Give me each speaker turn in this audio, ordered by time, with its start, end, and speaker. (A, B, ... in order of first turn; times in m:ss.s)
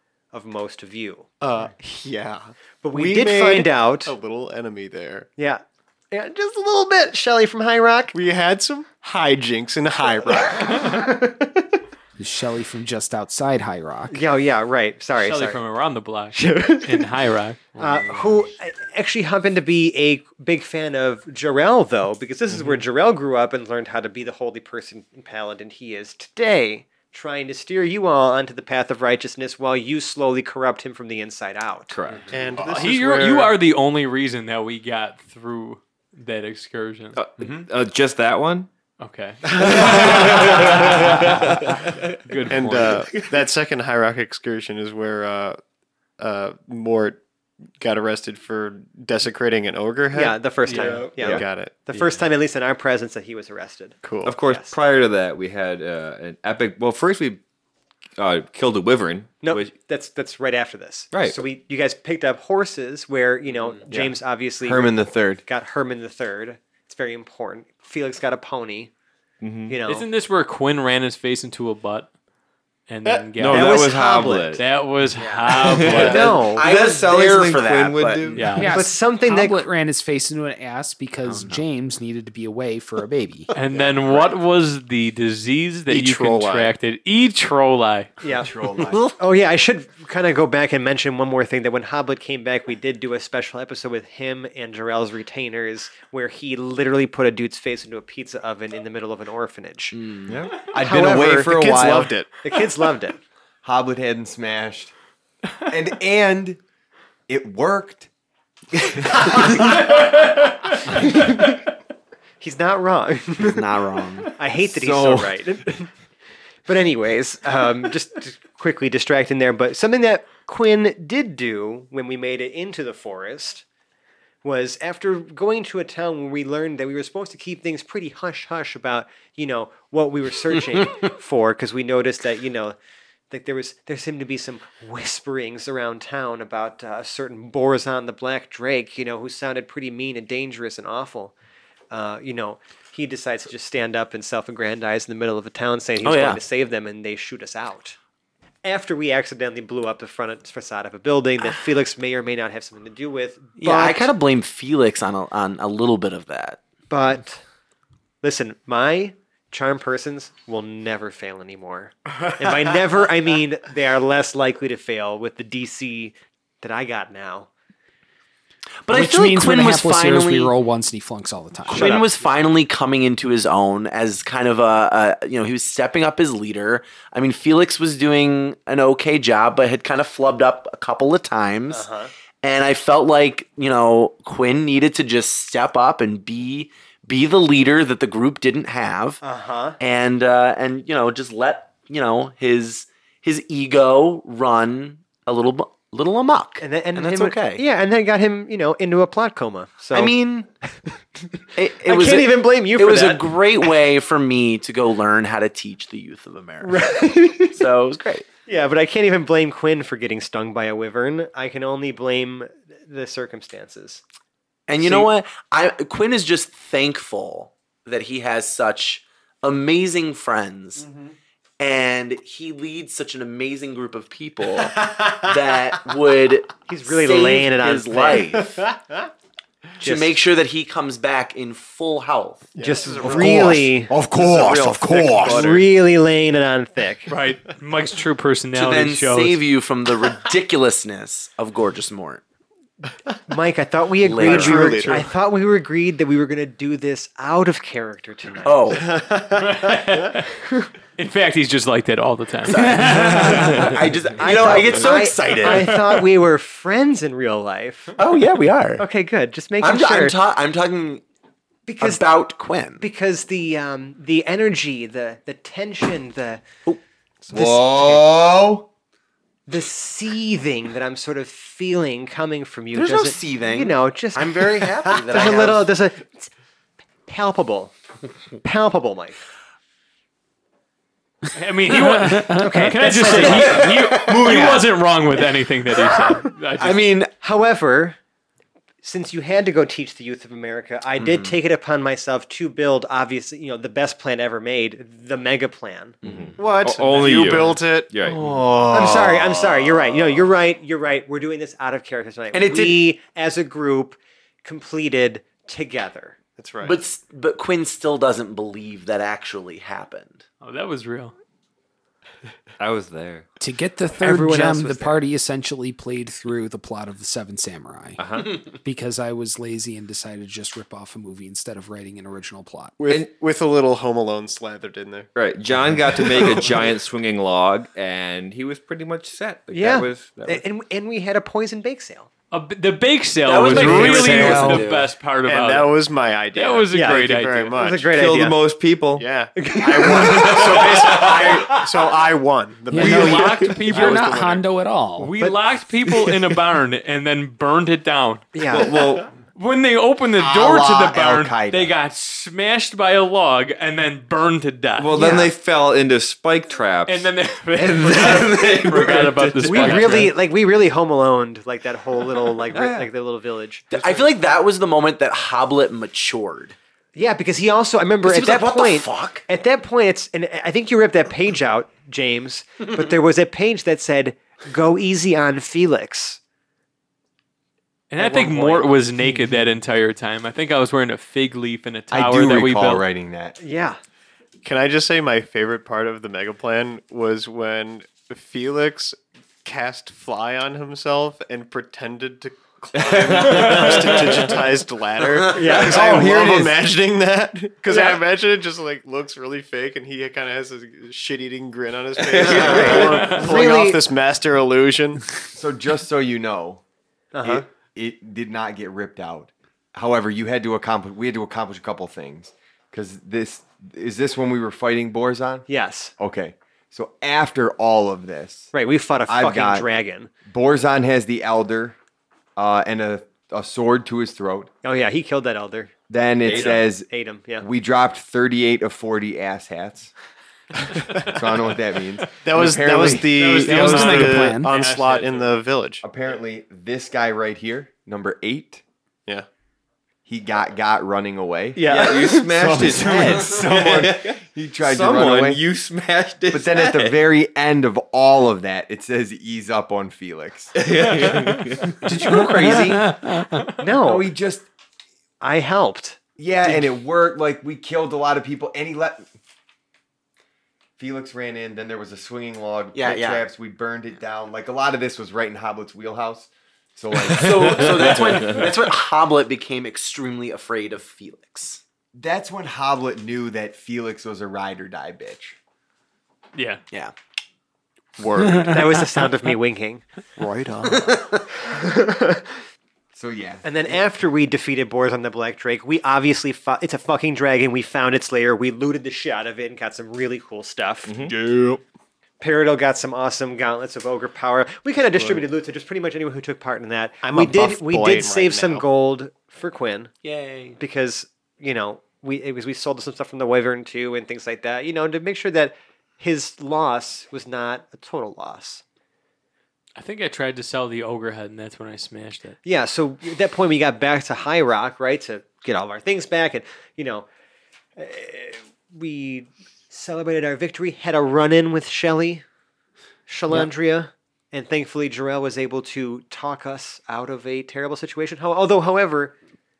0:00.3-0:01.3 A
0:01.4-0:05.3 B
0:02.8-0:04.2 A
0:05.4-0:08.2 A
0:08.1-0:11.5 B
0:12.2-0:14.2 C
0:14.1-0:15.6 A
0:15.2-0:18.4 D
0:16.5-0:16.9 B
0:17.8-0:31.9 A
0:31.9-0:32.3 E
0:32.3-0:33.6 B
0:32.6-0:37.2 D
0:37.1-0:38.7 E
0:39.0-0:43.2 D
0:39.5-0:42.2 E
0:42.5-0:45.6 B
0:46.2-0:47.2 B
0:47.8-0:51.9 B
0:50.1-0:54.7 A
0:50.6-0:51.1 D
0:50.7-0:51.4 E
0:51.9-0:52.2 D
0:54.0-0:54.4 B
0:54.2-0:57.4 E
0:58.2-0:59.7 E
0:59.4-1:04.9 A
1:01.1-1:01.4 E
1:03.9-1:05.4 F
1:05.4-1:08.9 A
1:09.4-1:09.8 E
1:09.7-1:10.1 A
1:09.8-1:12.1 D
1:12.9-1:13.8 D
1:13.4-1:14.7 E
1:13.5-1:14.6 A
1:14.6-1:16.3 D
1:15.1-1:18.4 G
1:15.5-1:18.6 E
1:15.9-1:16.7 A
1:18.3-1:18.8 D
1:18.6-1:23.5 C
1:18.7-1:19.6 A
1:21.2-1:21.6 G
1:23.5-1:28.1 D
1:23.7-1:24.4 G
1:25.9-1:26.7 B
1:28.2-1:40.0 A
1:28.4-1:29.0 F
1:39.9-1:40.4 G
1:40.3-1:40.7 E
1:40.6-1:42.1 F
1:40.7-1:42.4 B
1:42.4-1:43.2 A
1:43.6-1:44.9 F
1:45.6-1:46.6 F
1:47.3-1:48.1 F
1:51.0-1:51.5 A
1:52.4-1:53.7 A
1:53.4-1:54.3 G
1:54.4-1:55.9 A
1:54.6-1:55.4 F
1:56.7-2:03.6 A
2:04.4-2:12.7 A
2:10.7-2:11.1 G
2:13.3-2:21.3 A
2:21.9-2:28.0 A
2:26.0-2:26.4 G
2:28.6-2:34.1 A
2:33.6-2:36.6 G
2:36.9-2:37.4 A
2:38.2-2:47.5 A
2:48.8-2:50.5 G
2:48.9-2:52.0 C
2:51.7-3:01.9 G
2:51.7-2:52.1 A
3:01.7-3:02.1 A
3:02.4-3:09.2 G
3:09.2-3:09.8 A
3:09.8-3:17.6 G
3:16.6-3:20.2 A
3:19.9-3:20.5 G
3:21.6-3:27.0 G
3:21.8-3:23.8 A
3:26.6-3:27.6 A
3:27.5-3:28.2 G
3:28.5-3:34.0 A
3:34.7-3:40.9 G
3:34.8-3:35.1 A
3:40.8-3:41.1 A
3:41.6-3:48.6 G
3:46.7-3:48.7 A
3:49.8-3:52.5 G
3:49.8-3:50.2 A
3:52.5-3:53.5 B
3:52.6-3:53.9 A
3:53.0-3:55.6 F
3:54.2-3:55.6 E
3:55.1-3:57.1 A
3:57.1-3:59.4 D
3:58.5-4:02.2 G
4:03.3-4:08.8 A
4:04.0-4:05.0 G
4:04.2-4:05.1 B
4:08.4-4:08.9 G
4:08.7-4:10.1 B
4:09.3-4:10.4 D
4:11.0-4:13.6 D
4:12.4-4:16.0 G
4:14.2-4:18.0 A
4:18.0-4:18.8 G
4:18.8-4:20.2 A
4:19.6-4:21.0 G
4:21.6-4:22.2 A
4:21.8-4:22.8 G
4:22.8-4:26.4 A
4:27.2-4:28.1 A
4:27.3-4:28.7 F
4:29.5-4:36.3 A
4:32.7-4:35.7 G
4:37.1-4:37.7 A
4:38.4-4:39.2 A
4:41.4-4:46.8 D
4:41.8-4:44.6 A
4:42.8-4:44.7 G
4:45.8-4:47.1 G
4:47.2-4:48.0 A
4:48.8-4:56.0 A
4:51.0-4:51.4 G
4:56.0-4:58.5 E
4:56.4-4:57.9 B
4:58.1-4:59.1 G
4:58.7-5:06.2 A
5:02.3-5:02.9 G
5:06.4-5:06.8 B
5:06.6-5:10.2 G
5:10.4-5:11.1 D
5:12.6-5:13.2 E
5:13.4-5:22.8 C
5:14.0-5:15.0 A
5:18.0-5:18.4 E
5:22.8-5:25.1 B
5:25.1-5:30.4 E
5:25.8-5:26.7 B
5:29.5-5:32.1 A
5:32.3-5:35.7 D
5:33.2-5:35.0 G
5:33.5-5:34.7 C
5:35.2-5:37.9 B
5:36.4-5:37.6 D
5:36.7-5:38.4 A
5:37.9-5:39.1 E
5:39.0-5:44.4 B
5:39.4-5:41.1 A
5:40.0-5:41.6 E
5:42.7-5:45.1 C
5:42.8-5:44.2 D
5:45.0-5:48.3 D
5:48.3-5:48.8 A
5:48.5-5:49.1 E
5:49.3-5:55.1 D
5:50.2-5:51.7 F
5:54.8-6:00.1 E
5:54.9-5:55.3 A
5:56.8-6:00.2 D
5:59.4-6:03.6 A
6:02.5-6:02.9 E
6:03.7-6:06.6 G
6:06.9-6:16.2 A
6:08.0-6:09.2 G
6:17.9-6:22.8 D
6:18.0-6:18.8 A
6:21.9-6:23.4 F
6:23.4-6:23.8 A
6:24.4-6:45.1 B
6:32.9-6:34.1 E
6:35.3-6:36.1 A
6:35.5-6:36.6 F
6:37.7-6:38.0 A
6:42.1-6:43.0 E
6:42.4-6:43.8 A
6:42.9-6:43.4 D
6:45.3-6:46.6 F
6:47.1-6:47.4 A
6:47.2-6:55.4 F
6:55.5-6:55.9 A
6:56.0-6:58.5 F
6:58.5-7:00.1 A
6:59.1-6:59.7 F
7:00.2-7:01.8 F
7:02.4-7:04.5 F
7:04.6-7:05.7 A
7:05.9-7:06.9 F
7:06.2-7:06.6 E
7:06.3-7:07.4 A
7:07.4-7:09.9 F
7:11.0-7:13.2 F
7:12.2-7:15.8 B
7:13.1-7:15.4 D
7:13.4-7:14.5 C
7:15.8-7:18.6 F
7:20.1-7:25.4 F
7:21.6-7:27.0 E
7:26.3-7:30.5 F
7:30.5-7:32.6 E
7:31.1-7:31.4 D
7:31.9-7:32.9 F
7:32.0-7:33.6 D
7:33.6-7:34.1 A
7:33.8-7:34.5 F
7:35.2-7:36.0 A
7:36.2-7:39.1 F
7:40.8-7:48.4 F
7:42.7-7:43.2 G
7:47.1-7:51.6 G
7:47.3-7:48.5 E
7:51.9-7:55.4 F
7:56.4-7:56.6 D
7:58.0-7:58.6 G
7:58.5-7:59.8 A
8:00.2-8:00.9 B
8:00.6-8:01.2 G
8:02.9-8:03.4 F
8:03.4-8:10.9 A
8:10.9-8:11.6 E
8:12.2-8:19.9 A
8:17.0-8:18.6 B
8:20.0-8:20.6 G
8:20.6-8:28.6 A
8:29.8-8:32.4 D
8:32.4-8:37.1 A
8:37.8-8:42.2 A
8:43.1-8:49.1 A